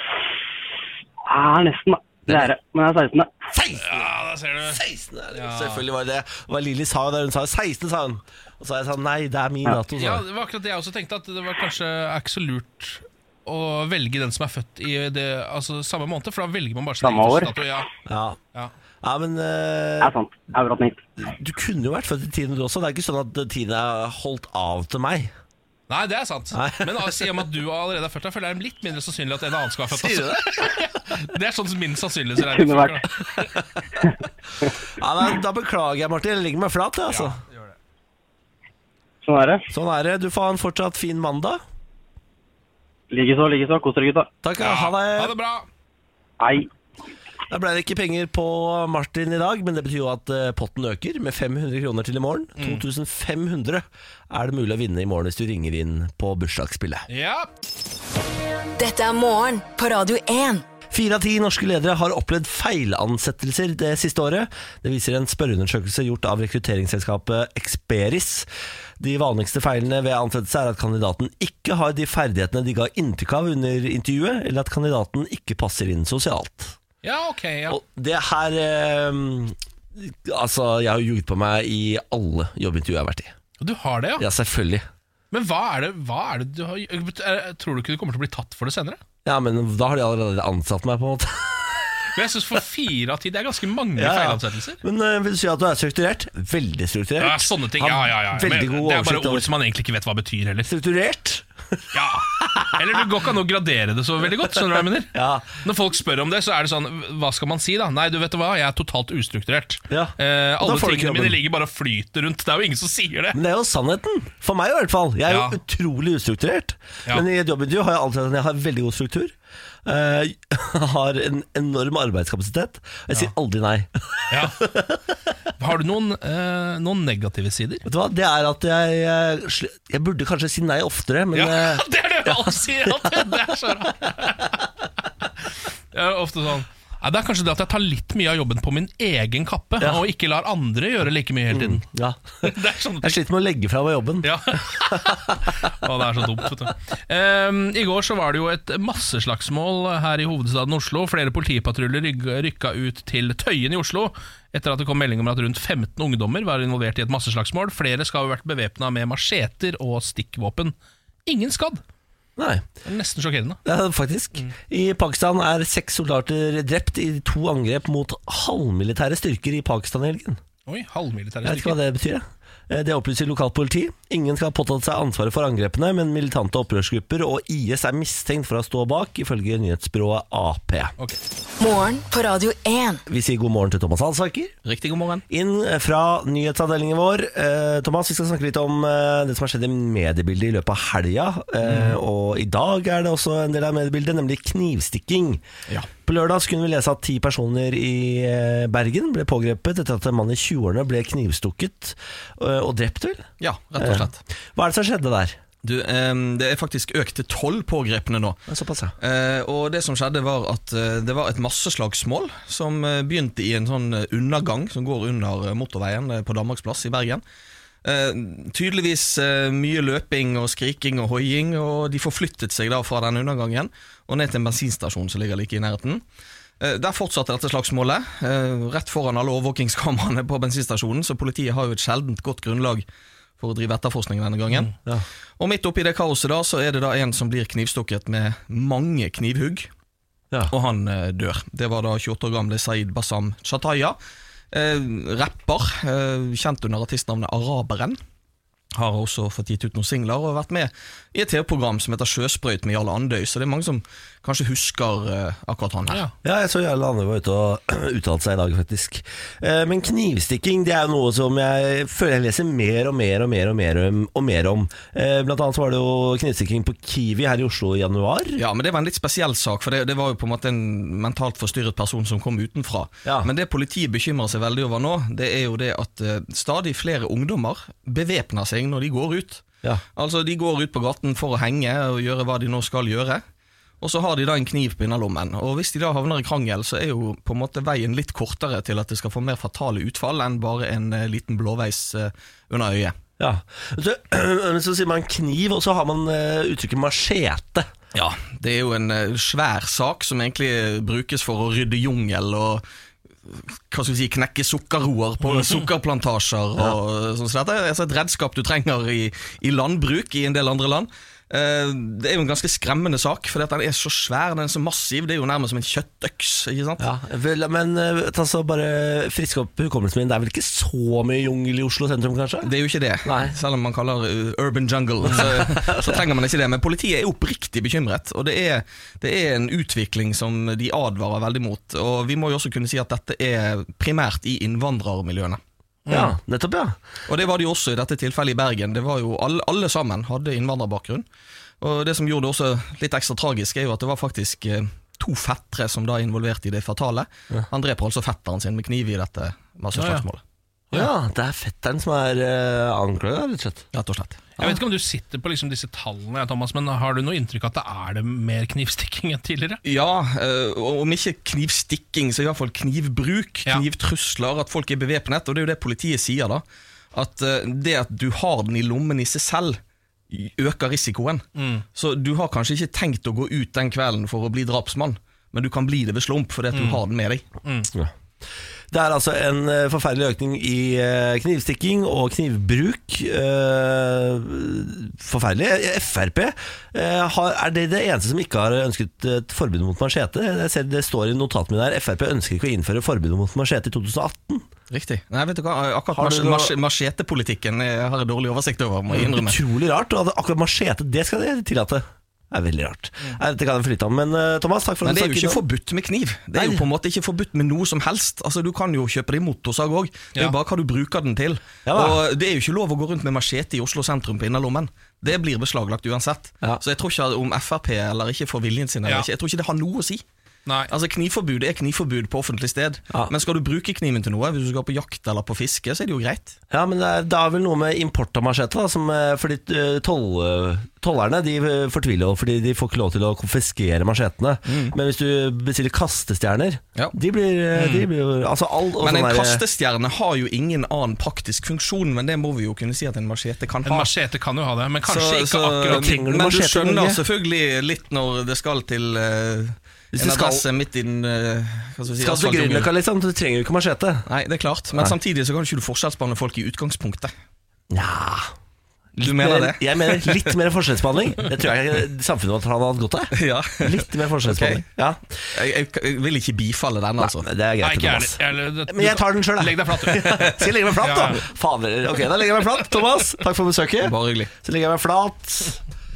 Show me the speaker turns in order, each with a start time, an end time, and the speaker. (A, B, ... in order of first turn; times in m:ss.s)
0:01.2-0:03.3 A
0:03.5-0:10.2 B
0:03.8-0:04.8 C
0:05.3-0:05.8 C
0:09.9-0:17.9 C
0:17.0-0:17.5 A
0:18.0-0:18.4 B
0:19.0-0:20.1 B
0:20.0-0:21.0 A
0:21.2-0:25.3 B
0:25.9-0:33.5 C
0:26.5-0:27.3 B
0:29.9-0:30.8 B
0:32.4-0:33.0 A
0:34.0-0:34.7 A
0:35.0-0:37.4 B
0:37.1-0:37.7 C
0:39.2-0:39.6 A
0:39.7-0:41.6 B
0:43.1-0:44.3 A
0:44.4-0:45.3 B
0:44.6-0:45.7 C
0:46.4-0:46.7 A
0:47.5-0:57.1 B
0:52.6-0:52.8 C
0:57.1-0:57.5 C
0:58.8-1:00.6 D
1:00.9-1:16.8 B
1:17.0-1:17.8 C
1:17.7-1:23.3 B
1:23.6-1:24.2 C
1:24.2-1:24.8 B
1:25.3-1:29.0 C
1:29.2-1:31.9 B
1:32.1-1:34.8 C
1:34.0-1:39.5 B
1:37.2-1:40.7 C
1:40.6-1:43.0 B
1:41.9-1:53.4 C
1:44.4-1:45.6 B
1:49.9-1:51.4 B
1:53.3-2:05.0 B
1:55.3-1:55.6 C
2:04.3-2:04.6 C
2:05.6-2:07.8 C
2:07.8-2:13.3 B
2:11.3-2:14.6 C
2:15.9-2:21.8 C
2:21.5-2:25.5 B
2:22.4-2:23.2 C
2:24.2-2:40.7 C
2:41.2-2:41.8 C
2:42.4-2:42.6 B
2:42.8-2:43.6 C
2:43.6-2:50.4 B
2:50.7-2:51.8 C
2:51.4-3:00.9 B
3:01.6-3:03.0 D
3:03.1-3:04.5 B
3:04.6-3:05.2 E
3:05.3-3:15.4 B
3:16.0-3:25.4 B
3:23.4-3:24.2 E
3:25.6-3:28.4 E
3:28.5-3:28.9 B
3:29.0-3:37.2 E
3:37.8-3:46.0 E
3:46.6-3:52.8 E
3:53.4-3:54.7 E
3:55.4-3:59.7 E
4:00.5-4:04.0 E
4:04.5-4:08.0 E
4:08.7-4:16.0 E
4:16.2-4:28.4 B
4:28.4-4:39.4 E
4:33.0-4:33.3 B
4:39.9-4:43.2 E
4:43.8-4:53.0 E
4:53.2-4:57.7 B
4:57.9-5:02.6 E
5:03.2-5:16.8 E
5:05.3-5:05.6 C
5:16.8-5:22.5 B
5:22.4-5:35.4 E
5:23.0-5:23.3 B
5:25.0-5:26.0 B
5:35.9-5:36.1 C
5:35.9-5:36.8 B
5:37.1-5:41.0 E
5:41.6-5:50.2 E
5:49.7-5:50.0 C
5:50.7-5:53.6 B
5:53.7-5:54.3 E
5:54.4-5:59.6 C
5:59.6-6:17.2 E
6:11.4-6:11.6 C
6:16.5-6:16.8 C
6:17.4-6:17.7 C
6:18.7-6:34.5 B
6:34.7-6:39.4 E
6:35.9-6:36.5 B
6:38.9-6:45.4 B
6:44.8-7:00.0 E
6:46.3-6:46.6 B
6:51.6-6:52.0 B
7:00.4-7:00.7 C
7:00.7-7:06.4 E
7:06.5-7:19.4 B
7:14.4-7:14.8 E
7:17.6-7:17.8 C
7:18.8-7:23.9 E
7:23.6-7:26.0 C
7:24.8-7:32.7 E
7:25.7-7:27.0 B
7:29.9-7:30.4 B
7:32.0-7:34.0 B
7:34.1-7:37.1 E
7:37.7-7:38.3 B
7:39.0-7:45.0 B
7:39.0-7:40.4 E
7:43.1-7:44.6 E
7:45.3-7:47.3 E
7:47.0-7:55.6 B
7:47.6-7:51.2 C
7:53.8-7:54.3 E